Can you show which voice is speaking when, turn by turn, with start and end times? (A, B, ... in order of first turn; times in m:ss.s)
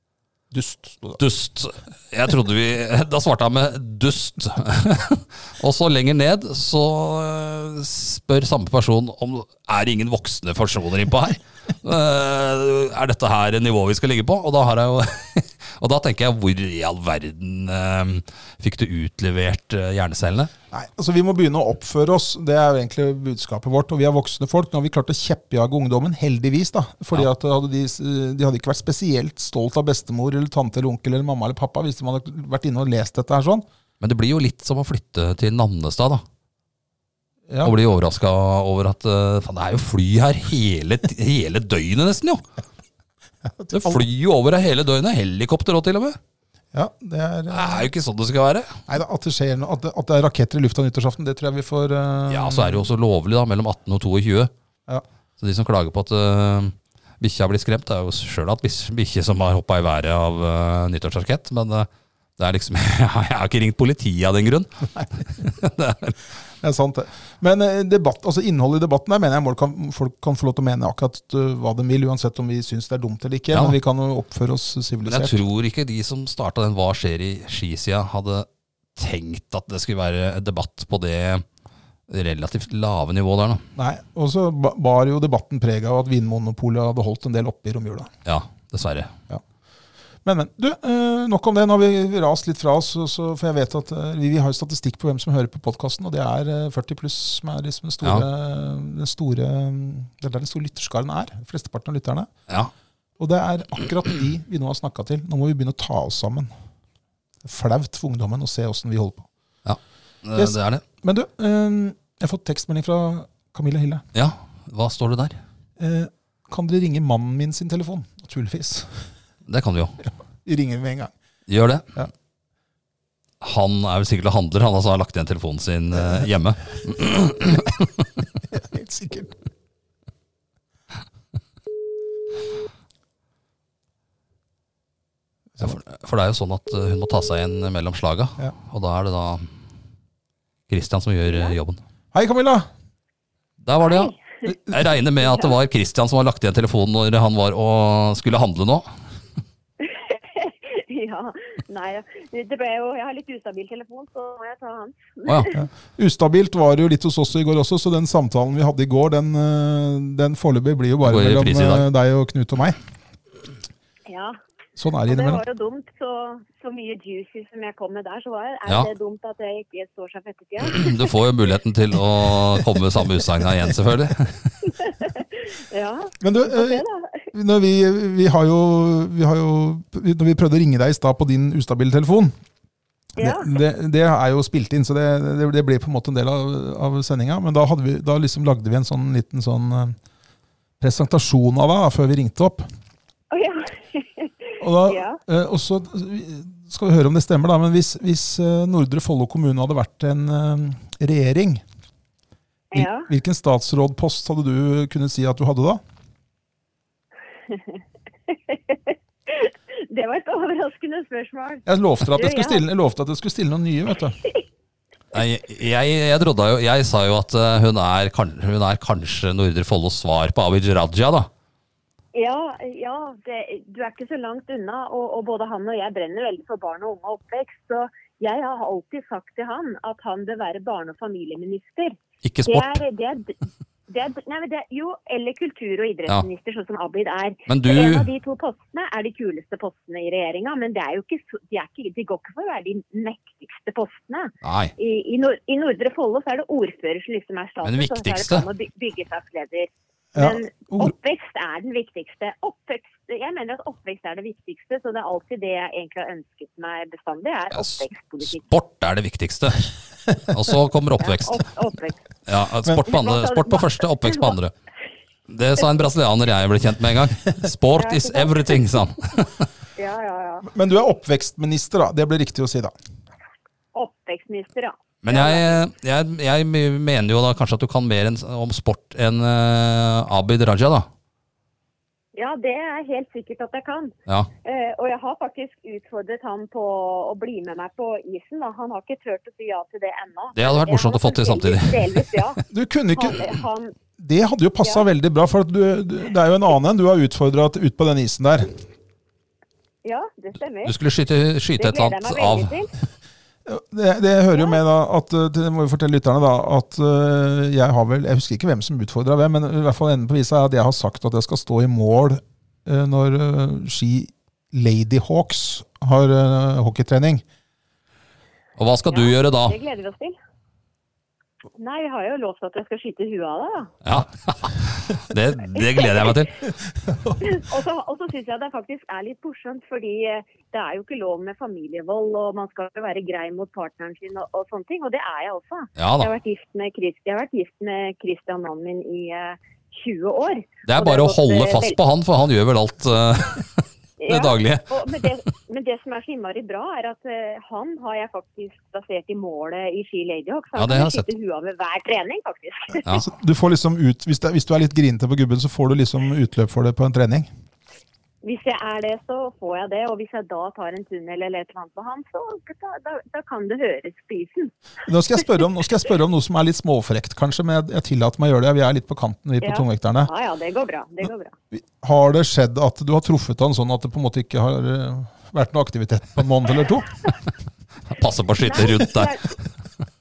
0:00.5-0:01.2 A
0:01.2-0:20.5 B
0:20.7-0:33.6 A
0:34.0-0:36.2 B
0:37.5-0:37.7 A
0:37.6-0:42.4 B
0:43.4-0:44.0 A
0:43.7-0:46.2 B
0:46.7-0:47.9 A
0:47.5-0:48.8 B
0:48.9-0:52.9 A
0:52.3-0:54.5 B
0:55.4-1:06.2 B
1:06.6-1:15.4 A
1:13.5-1:13.8 B
1:15.0-1:21.4 B
1:22.1-1:23.6 B
1:23.8-1:28.1 A
1:28.2-1:29.1 B
1:30.2-1:42.3 A
1:43.2-1:46.5 A
1:47.4-1:49.3 A
1:49.6-1:50.8 B
1:50.4-1:54.0 A
1:54.1-1:55.4 B
1:55.8-1:59.1 A
1:59.5-2:00.0 B
2:00.0-2:01.1 A
2:01.5-2:01.9 B
2:03.4-2:08.1 B
2:06.0-2:06.3 A
2:08.5-2:09.4 A
2:15.6-2:19.5 B
2:20.7-2:21.8 B
2:22.1-2:22.7 A
2:23.6-2:24.1 B
2:23.8-2:24.5 C
2:24.7-2:28.9 B
2:25.2-2:25.5 C
2:29.8-2:35.6 C
2:35.3-2:35.5 B
2:35.5-2:42.8 A
2:41.0-2:41.9 B
2:44.1-2:44.4 C
2:44.8-2:45.4 A
2:45.1-2:51.1 C
2:50.6-2:54.6 B
2:54.7-2:57.3 C
2:56.2-3:02.3 A
3:03.2-3:03.5 C
3:03.2-3:10.0 A
3:10.8-3:12.7 A
3:13.3-3:15.2 C
3:14.6-3:21.6 A
3:22.7-3:23.1 C
3:22.7-3:25.8 A
3:27.5-3:27.8 C
3:28.3-3:32.6 C
3:31.7-3:34.2 A
3:35.1-3:41.3 B
3:42.1-3:53.4 C
3:52.2-3:52.8 B
3:53.9-4:18.5 C
3:57.5-3:58.1 B
4:04.4-4:04.7 B
4:07.6-4:08.5 B
4:10.2-4:10.9 A
4:17.5-4:19.7 B
4:20.2-4:21.5 B
4:21.0-4:22.0 C
4:22.3-4:24.5 B
4:22.8-4:24.4 C
4:25.3-4:29.5 B
4:27.8-4:28.8 C
4:29.8-4:30.5 C
4:30.5-4:32.7 A
4:33.7-4:35.6 C
4:35.0-4:40.9 B
4:42.1-4:52.4 C
4:50.4-4:52.2 B
4:52.5-4:53.4 A
4:52.9-4:53.7 C
4:54.0-4:58.6 A
4:59.8-5:00.8 C
5:00.6-5:02.5 B
5:01.6-5:02.7 C
5:03.5-5:17.2 A
5:18.6-5:19.6 B
5:18.9-5:20.2 C
5:21.6-5:23.7 C
5:23.8-5:26.4 B
5:25.6-5:26.2 C
5:26.7-5:27.2 A
5:27.2-5:41.8 C
5:35.8-5:36.1 B
5:40.7-5:45.1 B
5:44.0-5:52.9 C
5:50.6-5:51.1 B
5:52.9-5:57.3 A
5:58.2-6:04.5 C
6:04.9-6:10.1 A
6:09.4-6:11.4 C
6:11.5-6:16.9 A
6:17.9-6:19.1 B
6:18.4-6:19.3 C